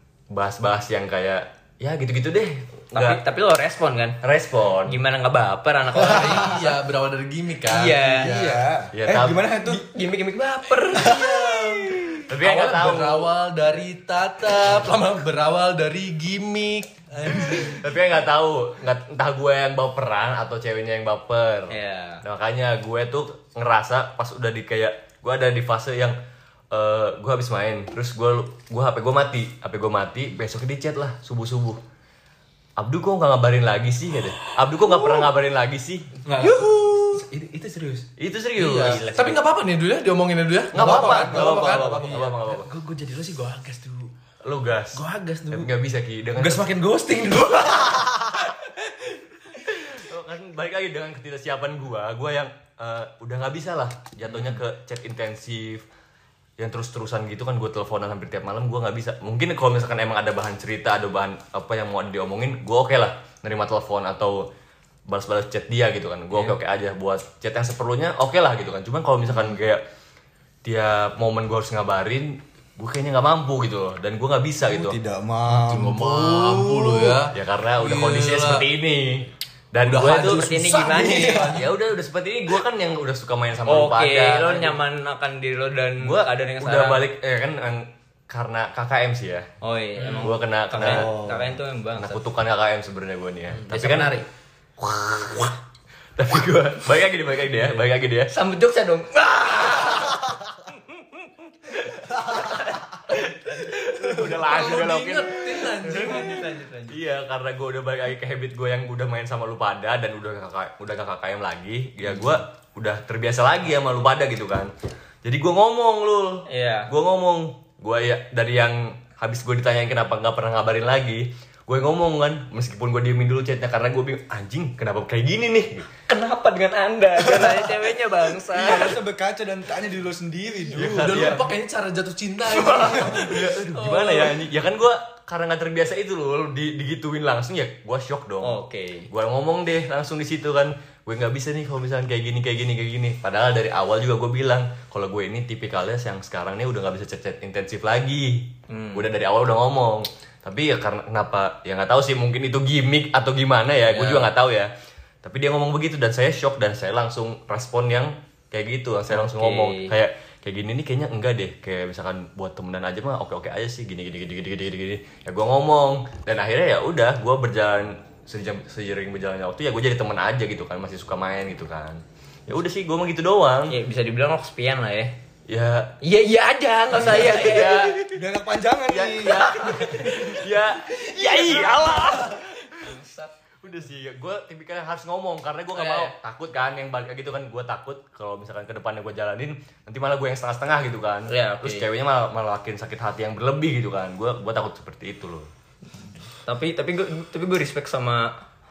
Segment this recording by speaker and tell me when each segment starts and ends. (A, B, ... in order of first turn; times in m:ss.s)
0:00.3-0:03.2 A
0:02.9-0:04.2 B
0:04.2-0:05.0 A
0:04.8-0:06.7 B
0:06.0-0:08.6 C
0:06.0-0:06.6 D
0:07.6-0:08.3 B
0:08.2-0:09.8 D
0:08.9-0:09.4 A
0:09.6-0:11.2 B
0:10.9-0:17.8 C
0:11.0-0:11.4 D
0:12.3-0:13.3 A
0:17.5-0:26.2 A
0:21.7-0:22.2 B
0:26.7-0:31.8 A
0:32.8-0:36.2 A
0:36.2-0:38.0 E
0:36.4-0:37.1 B
0:38.2-0:39.4 A
0:38.6-0:42.3 C
0:40.7-0:42.7 A
0:40.7-0:42.3 D
0:42.4-0:44.1 E
0:44.4-0:46.7 A
0:44.9-0:45.7 E
0:46.4-0:48.4 E
0:49.7-0:55.8 A
0:56.6-1:04.4 A
1:05.1-1:09.8 A
1:10.6-1:15.0 A
1:14.6-1:17.2 D
1:15.5-1:18.7 C
1:17.3-1:20.5 A
1:19.8-1:21.7 C
1:20.1-1:21.6 B
1:21.4-1:24.8 A
1:23.7-1:27.0 B
1:26.0-1:29.5 A
1:29.6-1:32.2 B
1:30.0-1:30.3 E
1:30.2-1:31.2 A
1:30.8-1:31.6 D
1:32.0-1:34.2 A
1:33.6-1:34.2 E
1:34.8-1:35.6 A
1:36.2-1:38.3 A
1:38.3-1:40.3 B
1:41.7-1:44.7 B
1:43.4-1:46.3 A
1:44.2-1:46.5 C
1:45.5-1:47.0 B
1:46.9-1:54.7 A
1:55.2-2:05.9 A
1:56.5-1:56.9 B
2:06.1-2:09.0 B
2:07.2-2:07.8 D
2:08.4-2:11.4 D
2:10.7-2:11.5 A
2:10.9-2:13.7 C
2:12.5-2:14.3 B
2:13.1-2:13.3 D
2:13.4-2:34.7 A
2:18.4-2:19.1 B
2:28.7-2:29.1 B
2:33.9-2:34.3 B
2:35.2-2:53.8 A
2:39.1-2:39.9 B
2:53.7-2:55.2 B
2:55.5-2:55.9 A
2:56.0-2:58.0 B
2:56.9-2:58.0 A
2:57.4-3:00.1 D
2:58.9-3:02.4 A
2:59.2-3:03.3 B
3:03.6-3:15.5 A
3:05.7-3:06.1 B
3:11.3-3:11.8 B
3:16.4-3:18.3 B